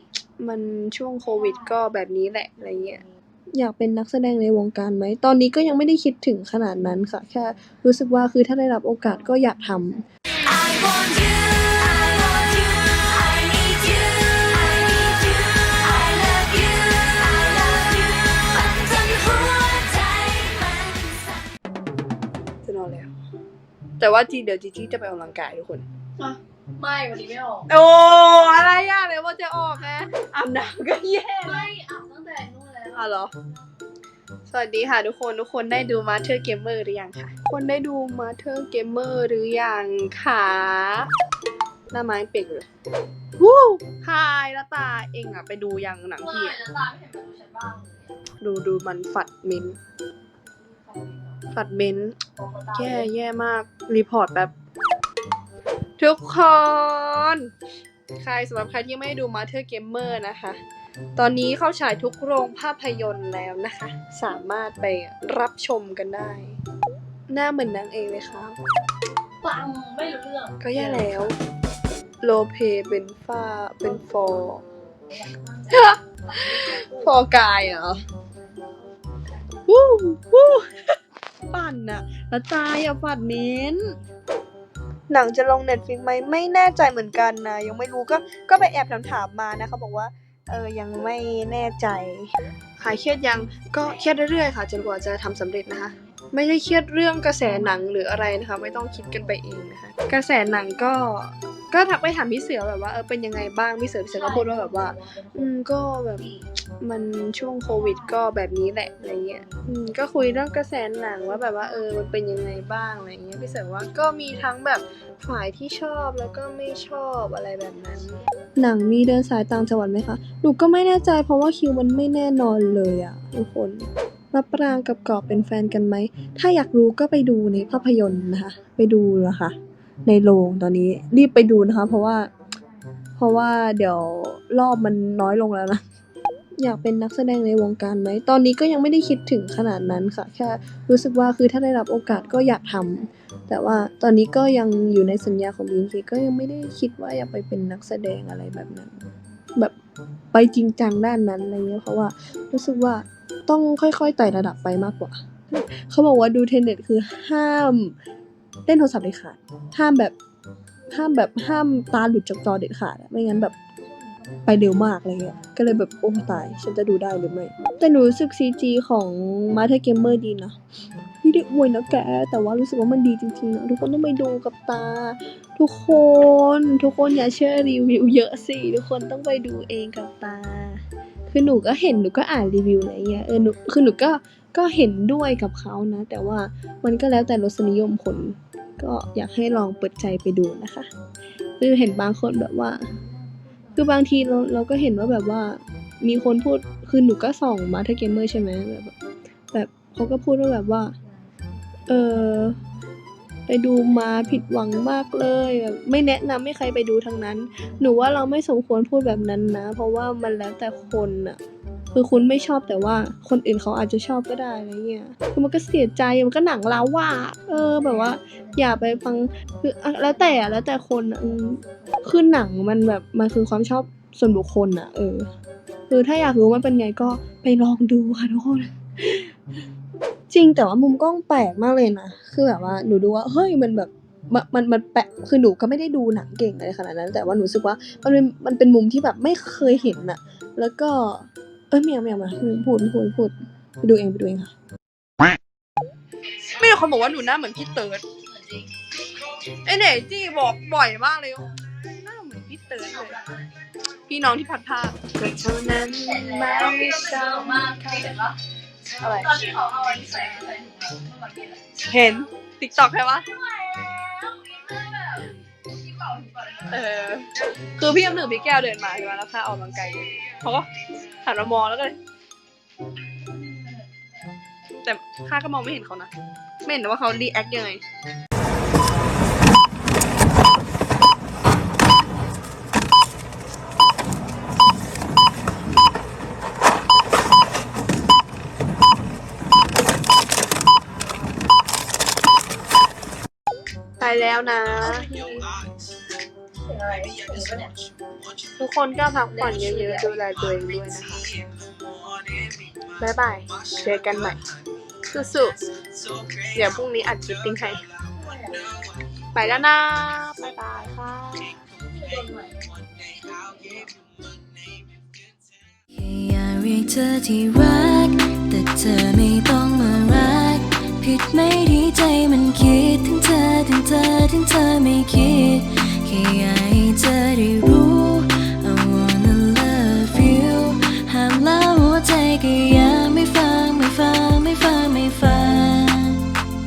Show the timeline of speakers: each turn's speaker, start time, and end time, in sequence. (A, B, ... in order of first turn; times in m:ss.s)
0:00.4-0:03.0 A
0:03.5-0:10.0 A
0:10.4-0:21.4 B
0:22.6-0:23.1 A
0:24.0-0:25.8 A
0:26.8-0:27.7 C
0:27.6-0:31.7 A
0:31.4-0:33.0 C
0:32.9-0:33.3 A
0:34.5-0:41.1 A
0:41.9-0:42.7 A
0:43.4-0:46.6 A
0:46.3-0:48.1 C
0:48.4-0:49.8 A
0:50.9-0:51.3 C
0:51.5-0:52.2 A
0:52.4-0:52.9 C
0:52.7-0:54.5 A
0:56.0-0:57.5 A
0:58.2-1:00.6 A
1:01.2-1:06.6 A
1:07.3-1:08.6 A
1:09.4-1:11.0 C
1:10.6-1:11.3 A
1:12.2-1:14.6 A
1:15.6-1:18.0 A
1:19.7-1:20.7 A
1:21.5-1:23.9 A
1:25.1-2:09.5 A
2:10.0-2:12.3 A
2:13.2-2:15.8 A
2:16.6-2:29.0 A
2:30.3-2:37.9 A
2:38.7-2:40.1 A
2:40.9-2:43.5 A
2:44.4-2:50.6 A
2:51.2-3:10.9 A
3:11.6-3:12.8 A
3:13.8-3:18.9 A
3:19.5-3:20.9 A
3:21.9-3:22.6 A
3:23.5-3:31.4 A
3:31.9-3:45.3 A
3:45.9-3:49.3 A
3:50.3-4:04.5 A
4:06.4-4:08.0 A
4:09.5-4:13.2 A
4:14.1-4:18.3 A
4:16.1-4:18.3 C
4:19.0-4:19.5 A
4:19.2-4:21.6 C
4:21.7-4:23.3 A
4:23.3-4:26.7 C
4:26.7-4:32.0 A
4:34.8-4:36.1 A
4:36.6-4:37.8 A
4:54.0-4:55.4 A
4:56.6-4:57.7 C
4:58.6-5:01.5 A
4:59.5-5:00.0 C
5:02.5-5:04.4 A
5:05.0-5:07.9 A
5:08.3-5:08.6 C
5:09.3-5:11.6 A
5:11.9-5:12.7 C
5:13.2-5:13.9 A
5:15.9-5:36.4 B